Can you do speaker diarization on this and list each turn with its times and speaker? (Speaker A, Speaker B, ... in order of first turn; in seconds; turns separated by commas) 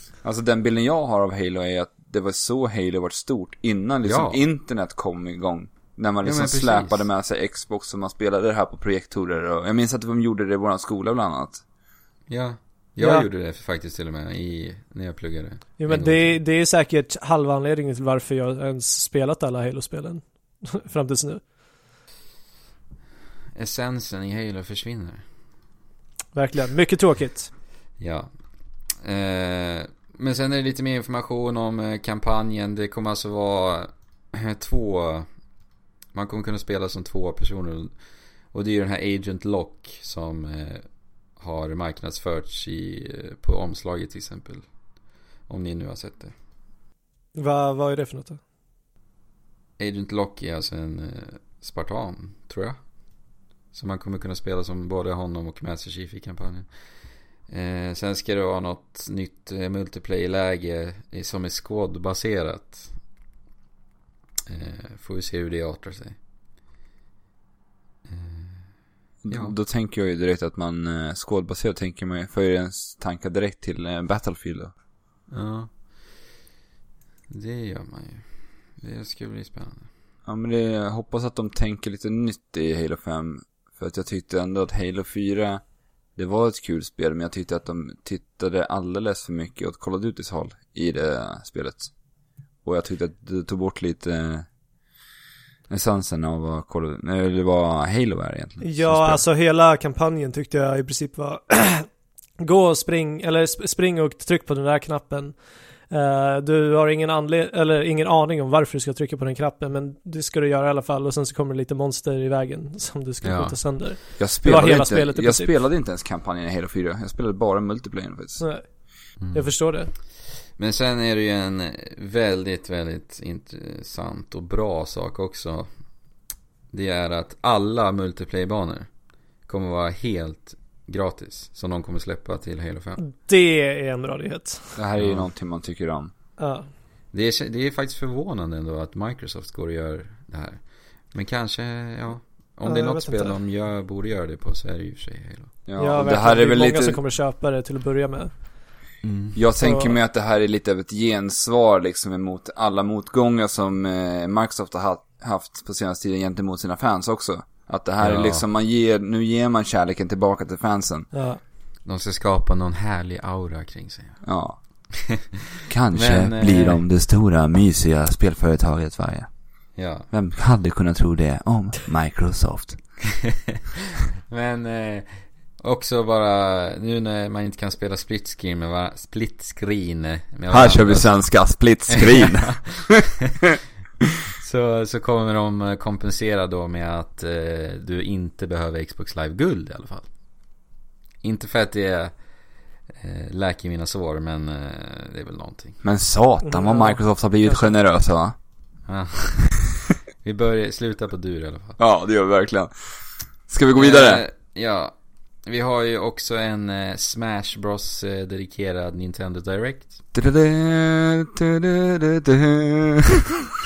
Speaker A: 0.2-11.6, Speaker B: 4.0-4.4, Speaker B: 6.2-7.0, Speaker B: 12.3-16.4, Speaker C: 13.0-13.2, Speaker C: 15.8-21.4, Speaker B: 23.5-25.2, Speaker C: 26.3-27.5, Speaker B: 28.0-28.3, Speaker B: 29.0-35.3, Speaker B: 36.1-37.9, Speaker B: 38.5-40.8, Speaker B: 41.4-44.6, Speaker B: 45.5-46.3, Speaker C: 47.4-48.4, Speaker B: 49.8-52.8, Speaker B: 53.7-56.7, Speaker B: 57.5-62.9, Speaker B: 64.5-66.2, Speaker B: 68.0-68.7, Speaker A: 69.2-74.7, Speaker B: 69.3-69.5, Speaker B: 75.3-75.9, Speaker B: 77.3-78.2, Speaker B: 78.8-79.9, Speaker A: 80.2-85.6, Speaker A: 86.2-91.9, Speaker A: 92.6-94.5, Speaker A: 95.7-99.2, Speaker C: 98.6-101.9, Speaker C: 102.4-105.4, Speaker C: 105.9-115.5, Speaker B: 113.2-113.5, Speaker A: 114.2-118.4, Speaker C: 118.4-118.6, Speaker B: 119.2-119.5, Speaker C: 119.3-119.9, Speaker B: 120.6-125.7, Speaker B: 126.7-128.9, Speaker B: 129.4-133.0, Speaker C: 133.0-134.8, Speaker A: 134.8-136.1, Speaker B: 135.0-135.3, Speaker C: 136.4-136.7, Speaker B: 137.1-145.5, Speaker C: 142.7-143.3, Speaker A: 145.7-147.0, Speaker C: 145.8-148.3, Speaker B: 149.0-149.4, Speaker A: 149.3-161.1, Speaker C: 149.6-149.9, Speaker B: 158.0-158.4, Speaker C: 161.1-161.4, Speaker B: 161.8-164.2, Speaker A: 164.2-164.6, Speaker B: 165.0-165.3, Speaker A: 165.7-169.3, Speaker B: 165.9-166.8, Speaker B: 169.7-170.1, Speaker A: 170.1-172.8, Speaker B: 173.9-182.9, Speaker A: 180.5-183.0, Speaker B: 184.4-190.1, Speaker B: 191.2-192.1, Speaker B: 193.0-195.8, Speaker A: 195.8-198.3, Speaker C: 196.4-197.7, Speaker B: 198.9-199.6, Speaker B: 200.2-201.8, Speaker A: 201.8-202.7, Speaker A: 203.5-204.2, Speaker B: 203.7-204.9, Speaker B: 205.4-210.0, Speaker A: 210.1-213.3